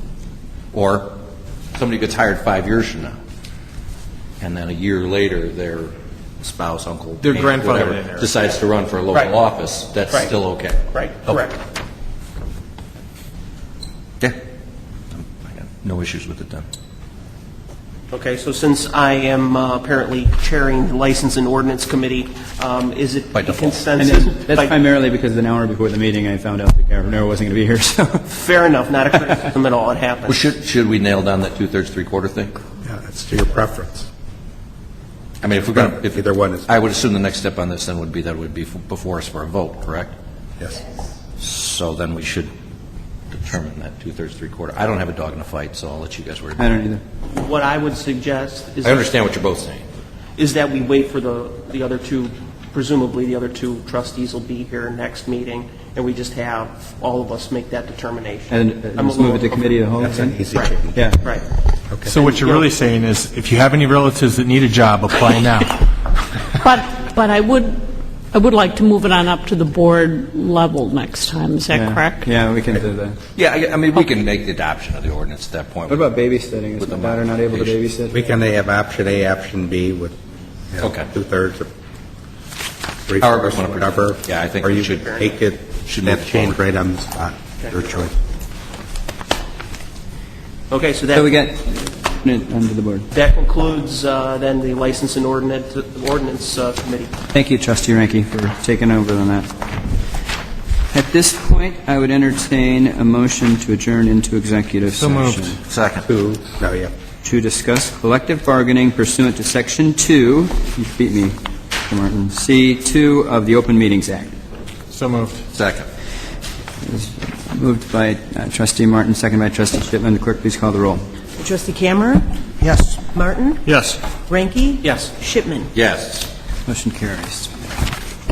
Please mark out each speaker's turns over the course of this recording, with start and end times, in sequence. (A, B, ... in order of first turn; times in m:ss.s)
0:00.7-0:01.1 A
0:01.7-0:03.2 A
0:04.4-0:11.4 A
0:07.2-0:08.3 B
0:10.9-0:11.6 C
0:15.1-0:16.7 A
0:18.1-0:24.7 C
0:23.3-0:23.8 A
0:24.0-0:28.3 D
0:28.3-0:30.4 C
0:30.3-0:32.6 A
0:32.8-0:34.1 E
0:35.4-0:40.1 A
0:35.7-0:36.7 E
0:41.4-0:42.5 A
0:43.3-0:46.7 A
0:46.6-0:47.0 D
0:47.3-0:49.1 C
0:48.8-0:49.8 A
0:50.4-0:59.9 C
0:58.5-1:00.4 D
1:00.0-1:01.0 E
1:00.5-1:01.4 C
1:00.9-1:01.2 D
1:02.1-1:05.8 B
1:02.1-1:02.7 C
1:06.6-1:12.3 F
1:11.7-1:13.2 D
1:13.3-1:16.1 A
1:15.9-1:18.2 D
1:16.8-1:17.8 A
1:18.1-1:20.2 E
1:20.7-1:21.7 E
1:20.8-1:21.1 A
1:23.1-1:28.1 E
1:23.2-1:25.2 A
1:25.8-1:26.6 A
1:30.7-1:31.3 C
1:31.1-1:33.1 D
1:33.1-1:37.1 C
1:37.3-1:39.5 D
1:40.9-1:45.6 D
1:44.9-1:45.6 B
1:45.6-1:46.1 A
1:46.0-1:46.9 E
1:47.2-1:54.4 D
1:54.9-1:55.4 B
1:55.5-1:55.9 A
1:56.8-2:01.0 D
2:01.4-2:03.6 G
2:03.6-2:04.0 B
2:04.3-2:05.7 G
2:04.8-2:05.1 C
2:05.7-2:06.3 A
2:06.6-2:07.5 D